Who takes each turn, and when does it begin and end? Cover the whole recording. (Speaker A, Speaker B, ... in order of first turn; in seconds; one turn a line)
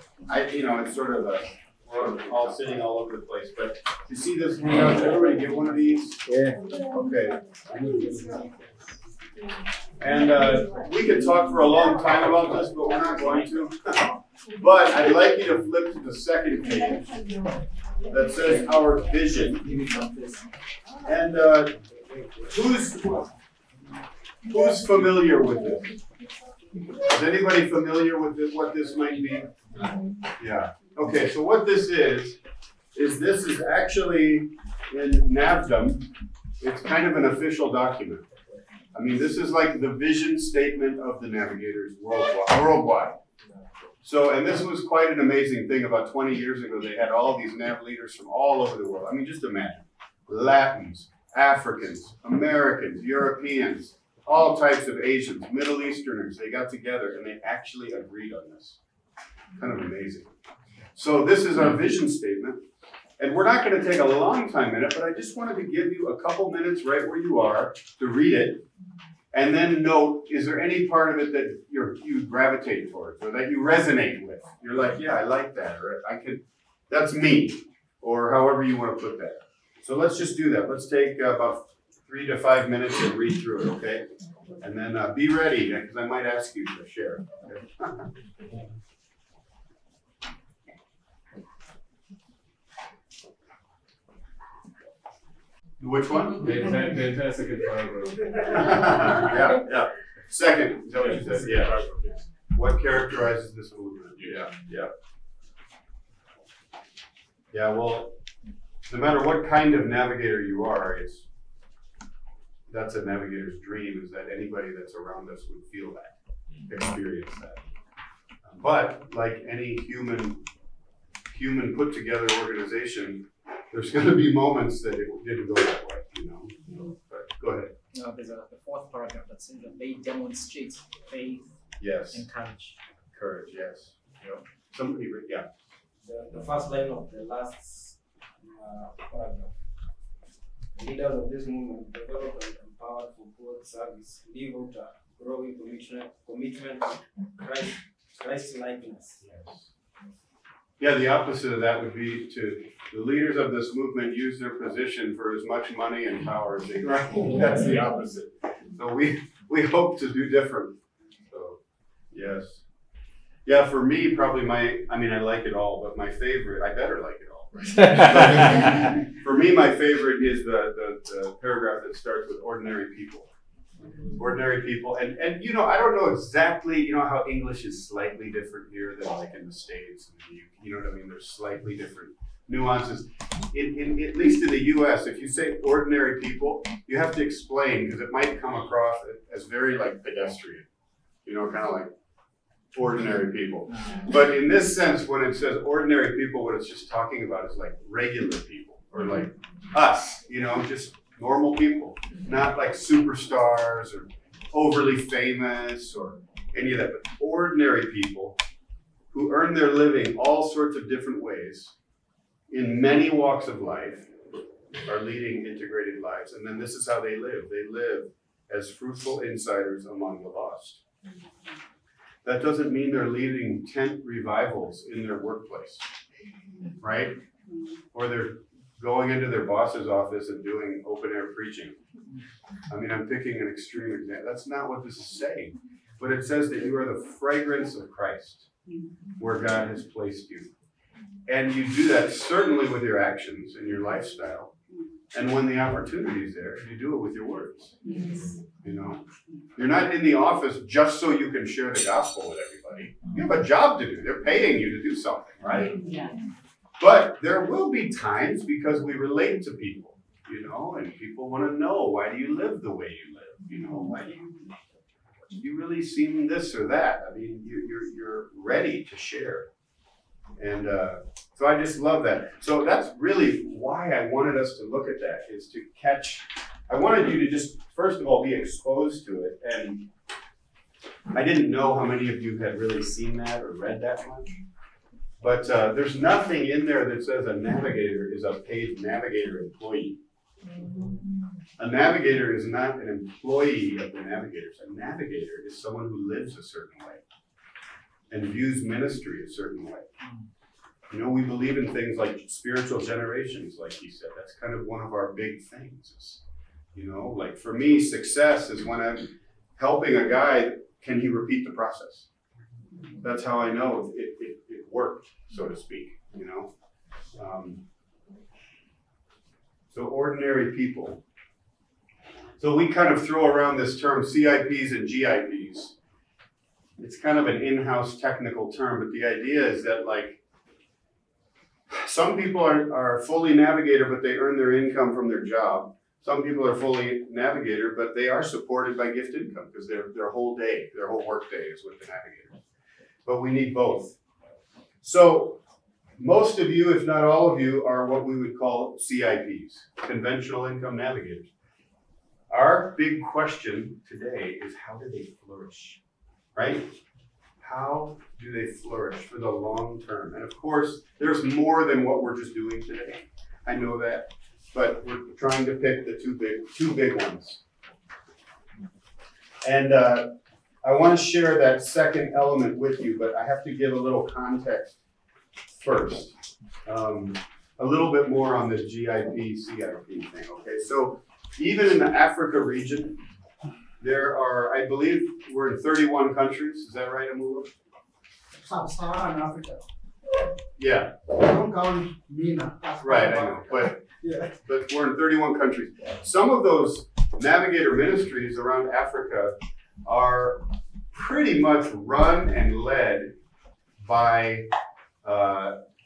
Speaker A: 0.3-6.2
Speaker B: 6.3-6.6
Speaker A: 6.9-8.4
Speaker A: 10.0-17.2
Speaker A: 18.1-19.7
Speaker B: 19.6-20.4
Speaker A: 21.0-21.8
Speaker A: 22.5-23.3
Speaker A: 24.4-25.9
Speaker A: 27.0-29.6
Speaker A: 30.4-32.4
Speaker A: 32.9-36.1
Speaker A: 36.6-38.3
Speaker A: 38.9-43.2
Speaker A: 44.0-58.8
Speaker A: 59.5-60.3
Speaker A: 61.0-62.6
Speaker A: 63.2-68.6
Speaker A: 69.3-84.1
Speaker A: 84.6-88.1
Speaker A: 95.8-96.5
Speaker C: 96.4-99.3
Speaker A: 98.5-101.9
Speaker C: 101.0-102.3
Speaker A: 102.5-104.9
Speaker C: 104.2-104.6
Speaker A: 107.5-108.2
Speaker A: 108.9-111.3
Speaker A: 112.7-117.6
Speaker A: 118.4-120.4
Speaker A: 121.3-127.7
Speaker D: 127.9-131.6
Speaker A: 131.8-132.3
Speaker D: 132.1-132.8
Speaker A: 133.1-135.5
Speaker B: 136.0-139.6
Speaker B: 140.8-149.2
Speaker A: 149.3-149.6
Speaker A: 150.8-161.6
Speaker C: 157.6-157.9
Speaker A: 162.1-162.6
Speaker A: 163.4-173.3
Speaker A: 174.1-190.7
Speaker A: 191.2-191.9
Speaker A: 192.7-208.4
Speaker A: 209.1-211.7
Speaker A: 212.5-214.1
Speaker A: 214.8-220.8
Speaker A: 222.2-225.8
Speaker A: 226.8-227.2
Speaker A: 227.9-231.8
Speaker A: 232.7-238.5
Speaker A: 239.2-240.5
Speaker A: 241.3-244.5
Speaker A: 245.1-247.8
Speaker A: 248.6-249.0
Speaker A: 249.6-255.8
Speaker A: 256.8-264.4
Speaker A: 265.3-269.5
Speaker A: 270.4-279.9
Speaker A: 281.1-284.3
Speaker A: 285.2-290.0
Speaker A: 291.6-297.0
Speaker A: 298.1-299.9
Speaker A: 300.9-306.2
Speaker A: 306.7-312.1
Speaker A: 313.0-316.5
Speaker A: 317.1-317.6
Speaker A: 319.7-321.0
Speaker A: 322.4-325.8
Speaker A: 326.8-330.2
Speaker A: 331.7-342.4
Speaker A: 343.1-344.0
Speaker A: 344.8-345.4
Speaker A: 346.0-351.3
Speaker A: 352.3-355.8
Speaker A: 356.4-356.7
Speaker A: 357.4-367.4
Speaker A: 369.4-374.8
Speaker A: 375.5-383.0
Speaker A: 383.8-387.5
Speaker E: 388.4-389.6
Speaker A: 390.6-391.0
Speaker E: 391.1-394.4
Speaker A: 392.8-393.8
Speaker A: 394.4-403.1
Speaker A: 403.8-404.5
Speaker A: 405.0-405.6